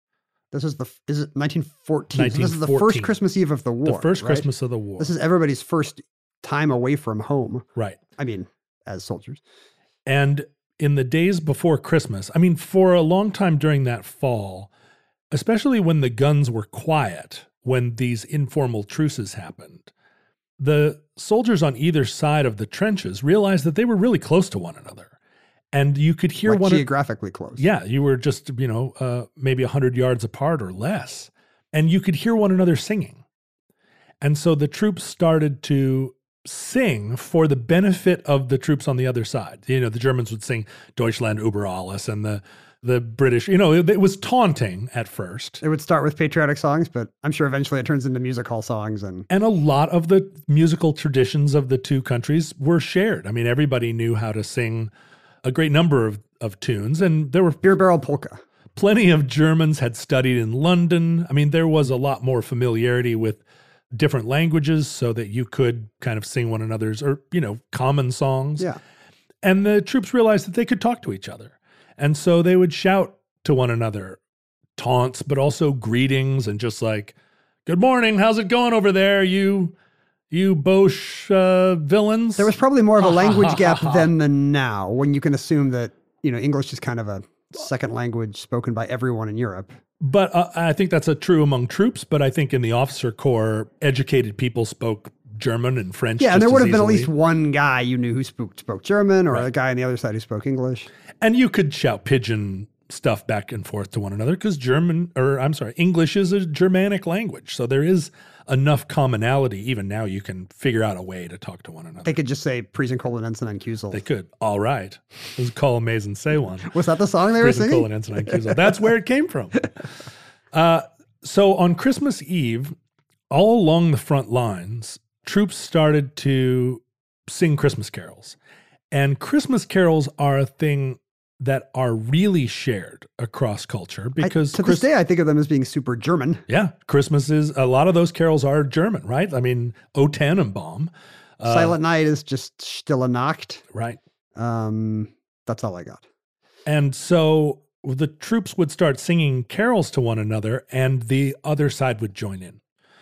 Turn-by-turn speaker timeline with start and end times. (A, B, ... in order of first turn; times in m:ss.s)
0:00.5-0:04.4 A
0:02.1-0:03.1 B
0:03.8-0:05.1 B
0:05.0-0:07.6 A
0:08.2-0:09.4 A
0:10.0-0:14.7 B
0:15.3-0:19.9 B
0:20.6-0:25.1 B
0:25.7-0:26.9 B
0:26.5-0:27.6 A
0:27.6-0:33.2 B
0:34.2-0:45.6 B
0:45.6-0:49.3 A
0:49.3-0:54.9 B
0:55.4-0:57.6 B
0:57.6-0:58.4 A
0:58.8-1:08.7 B
1:09.4-1:14.2 B
1:14.8-1:17.1 B
1:17.6-1:19.7 B
1:20.3-1:24.1 B
1:22.4-1:29.8 A
1:30.0-1:37.1 B
1:36.2-1:40.9 A
1:41.2-1:52.1 B
1:52.0-1:54.0 A
1:53.9-1:56.8 B
1:56.7-1:58.6 A
1:57.4-1:59.9 B
2:00.5-2:02.7 B
2:03.3-2:08.4 B
2:08.9-2:14.8 B
2:14.2-2:16.4 A
2:16.5-2:21.8 B
2:21.5-2:23.6 A
2:23.7-2:24.0 B
2:24.4-2:26.0 A
2:26.6-2:32.6 B